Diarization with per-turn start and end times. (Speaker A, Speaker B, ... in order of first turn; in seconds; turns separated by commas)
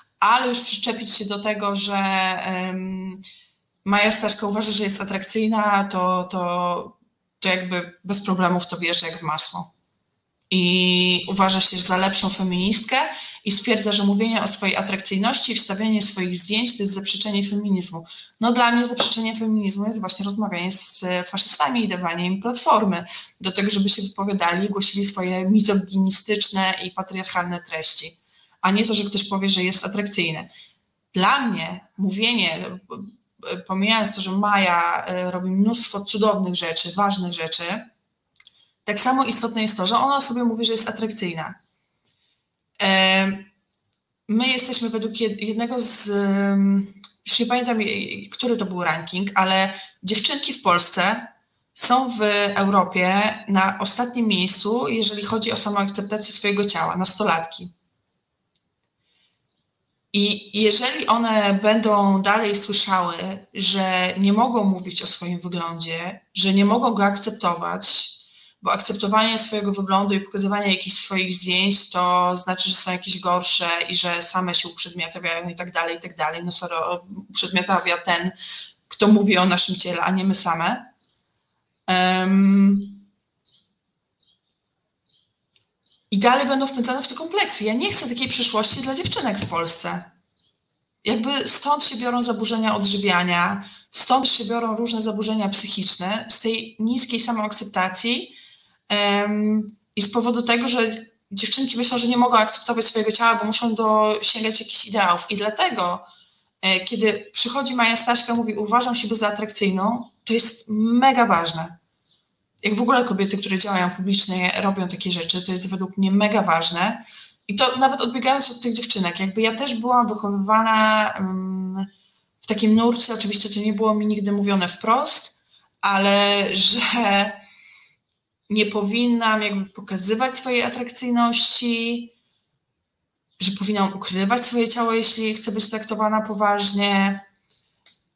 Speaker A: 0.2-3.2, Speaker A: 3.9-9.7, Speaker A: 10.5-30.5, Speaker A: 31.1-37.9, Speaker A: 38.9-41.5, Speaker A: 42.8-43.5, Speaker A: 44.3-57.7, Speaker A: 60.1-78.3, Speaker A: 78.9-80.9, Speaker A: 81.9-83.0, Speaker A: 86.1-90.1, Speaker A: 91.0-98.4, Speaker A: 98.9-106.0, Speaker A: 106.6-111.8, Speaker A: 112.6-121.9, Speaker A: 122.4-127.4, Speaker A: 128.5-132.1, Speaker A: 133.4-137.2